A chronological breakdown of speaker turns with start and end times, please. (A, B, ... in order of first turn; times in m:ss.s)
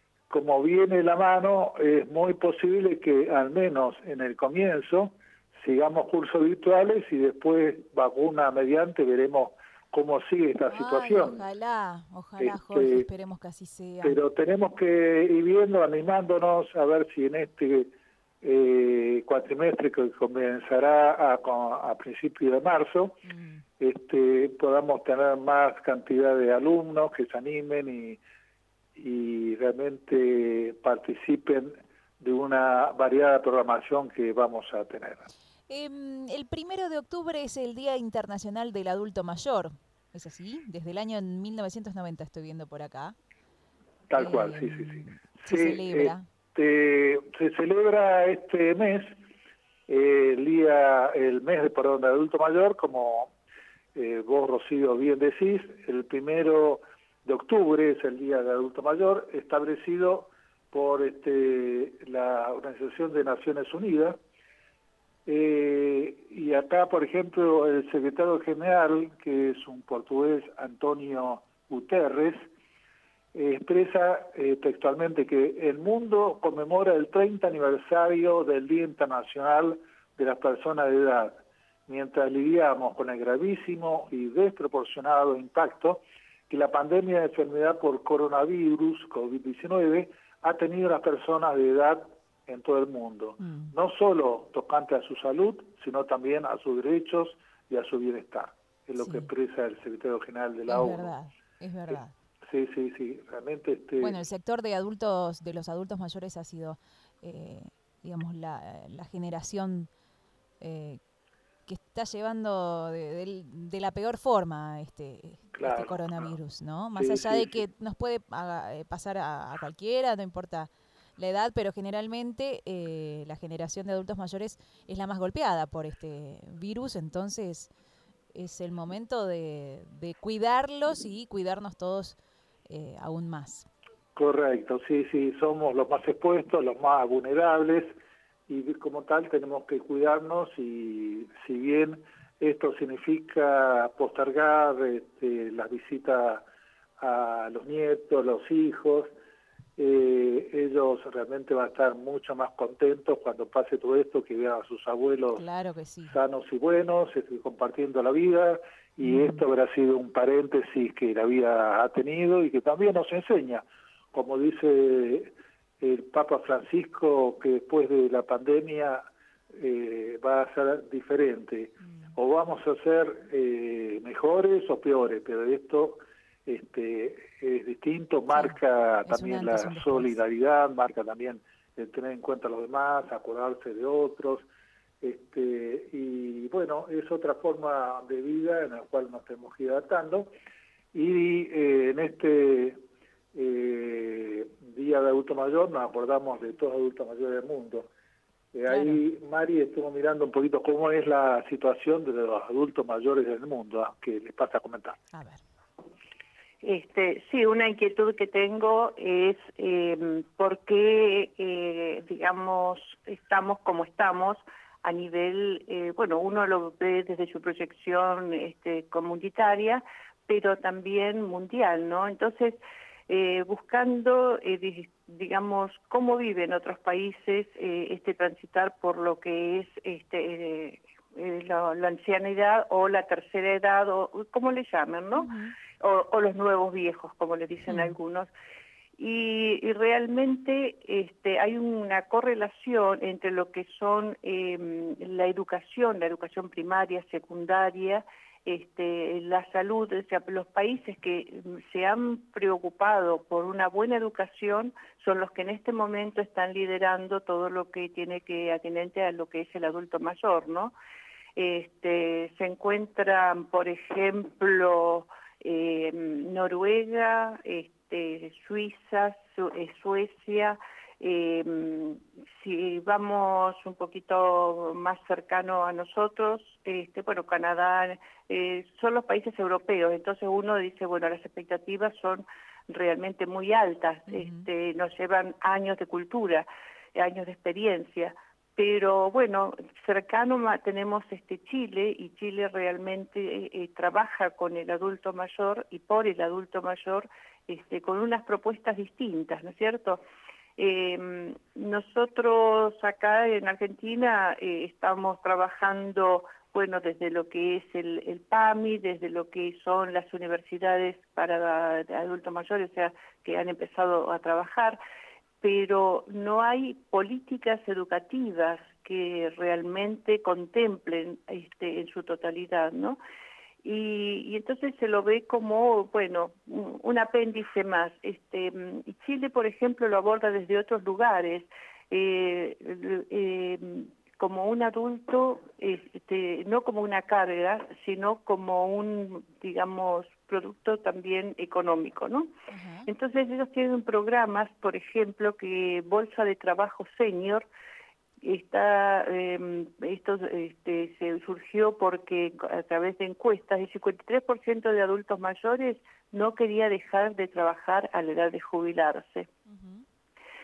0:00.3-0:11.4 A
0:10.7-0:14.2 B
0:12.4-0:13.1 A
0:14.0-0:17.9 A
0:18.4-0:23.2 A
0:23.2-0:23.6 B
0:23.8-0:28.2 A
0:29.0-0:35.2 A
0:35.7-0:43.1 B
0:44.1-0:49.2 A
0:44.2-0:46.2 B
0:49.9-0:53.3 A
0:53.9-1:04.2 A
1:05.2-1:12.4 A
1:13.3-1:41.1 A
1:33.4-1:33.7 B
1:39.0-1:39.3 B
1:40.7-1:42.1 B
1:41.9-1:44.2 A
1:44.0-1:49.9 B
1:50.6-1:51.0 B
1:51.7-2:07.7 B
1:55.5-1:56.3 A
1:56.9-1:57.6 A
2:08.3-2:12.2 B
2:12.7-2:13.7 B
2:14.2-2:17.9 A
2:18.5-2:26.4 A
2:27.0-2:29.1 A
2:29.8-2:35.4 A
2:35.3-2:36.2 B
2:36.1-3:04.5 A
2:39.0-2:39.4 B
2:58.3-3:00.2 B
3:05.0-3:10.3 A
3:10.9-3:12.8 A
3:13.3-3:17.9 A
3:18.5-3:25.0 A
3:18.7-3:19.0 B
3:25.1-3:25.4 B
3:26.6-3:58.3 C
3:55.1-3:55.6 B
3:57.7-3:58.0 B
3:59.0-4:20.7 C
4:21.4-5:00.0 C
4:44.1-4:44.5 B
5:00.6-5:14.8 C
5:15.4-5:23.0 C
5:23.6-5:42.3 C
5:42.5-5:42.9 B
5:42.8-5:47.4 C
5:48.2-5:59.3 C
5:59.5-5:59.8 B